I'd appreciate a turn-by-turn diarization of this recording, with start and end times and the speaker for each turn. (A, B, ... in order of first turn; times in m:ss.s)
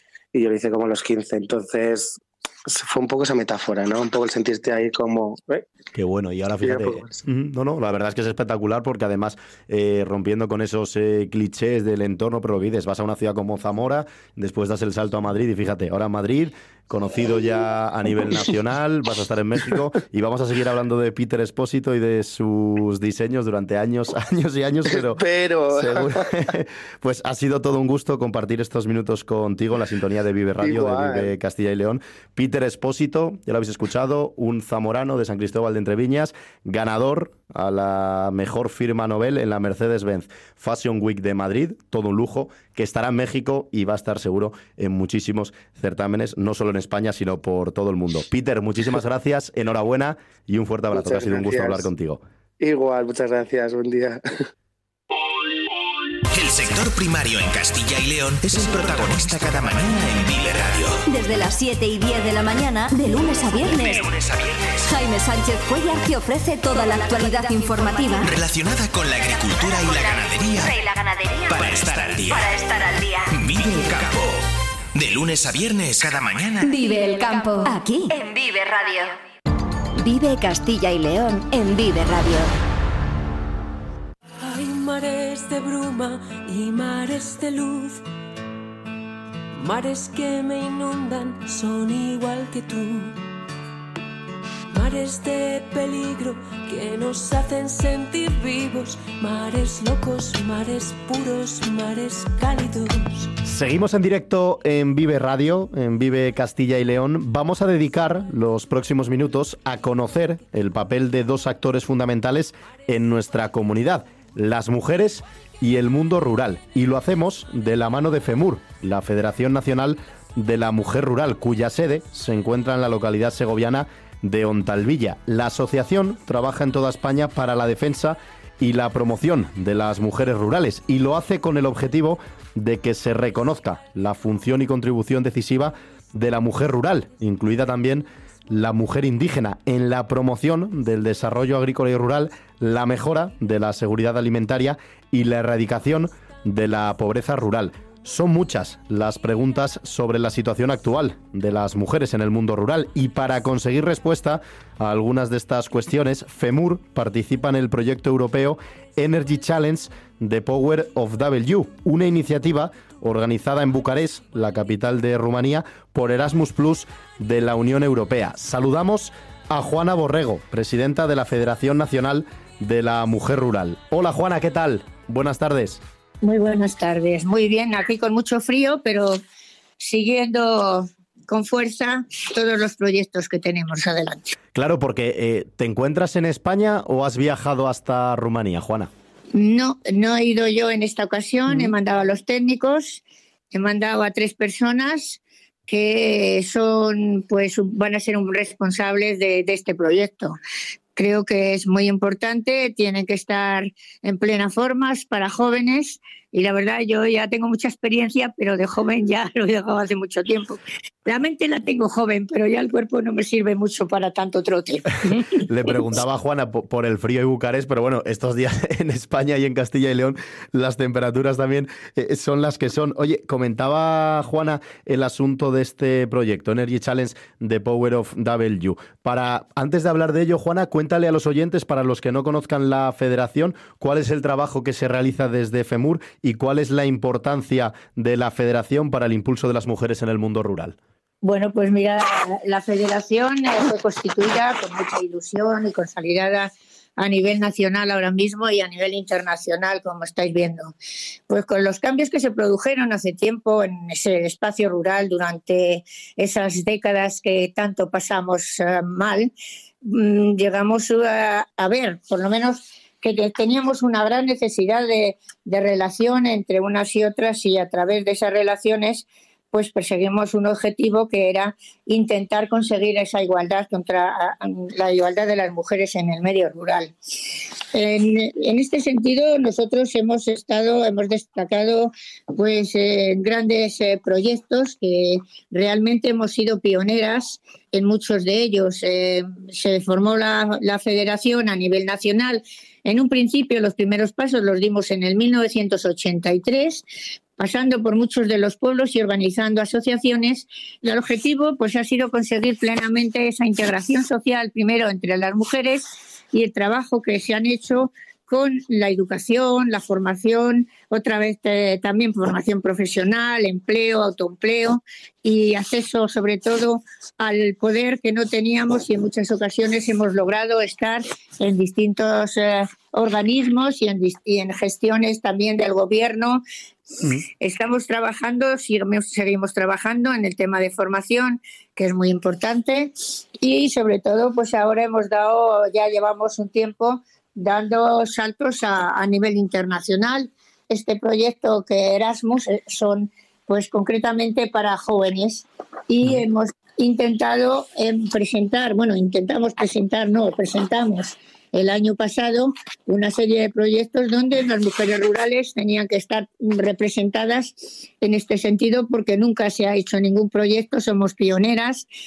0:00.3-0:05.7 A
0:05.9-0:52.2 B
0:06.6-0:07.2 A
0:25.0-0:26.4 A
0:30.6-0:31.3 A
0:50.9-0:51.9 A
0:52.6-0:54.2 A
0:56.3-1:01.0 C
1:01.1-1:04.1 D
1:04.0-1:04.8 C
1:04.9-1:08.2 D
1:08.2-1:10.8 C
1:09.9-1:11.7 D
1:11.5-1:12.6 C
1:12.3-1:13.3 D
1:13.3-1:16.7 C
1:16.6-1:19.2 D
1:19.9-1:22.5 D
1:24.4-1:28.0 E
1:29.6-1:33.2 E
1:34.7-1:43.3 E
1:43.4-2:55.8 B
2:56.2-2:59.2 F
2:59.8-3:04.4 F
3:04.5-3:08.9 B
3:09.3-3:20.4 F
3:21.0-3:35.4 F
3:35.4-4:00.8 B
4:01.2-4:10.7 F
4:11.3-4:19.3 F
4:19.8-4:56.8 F
4:57.4-5:26.4 F
5:27.0-6:01.9 F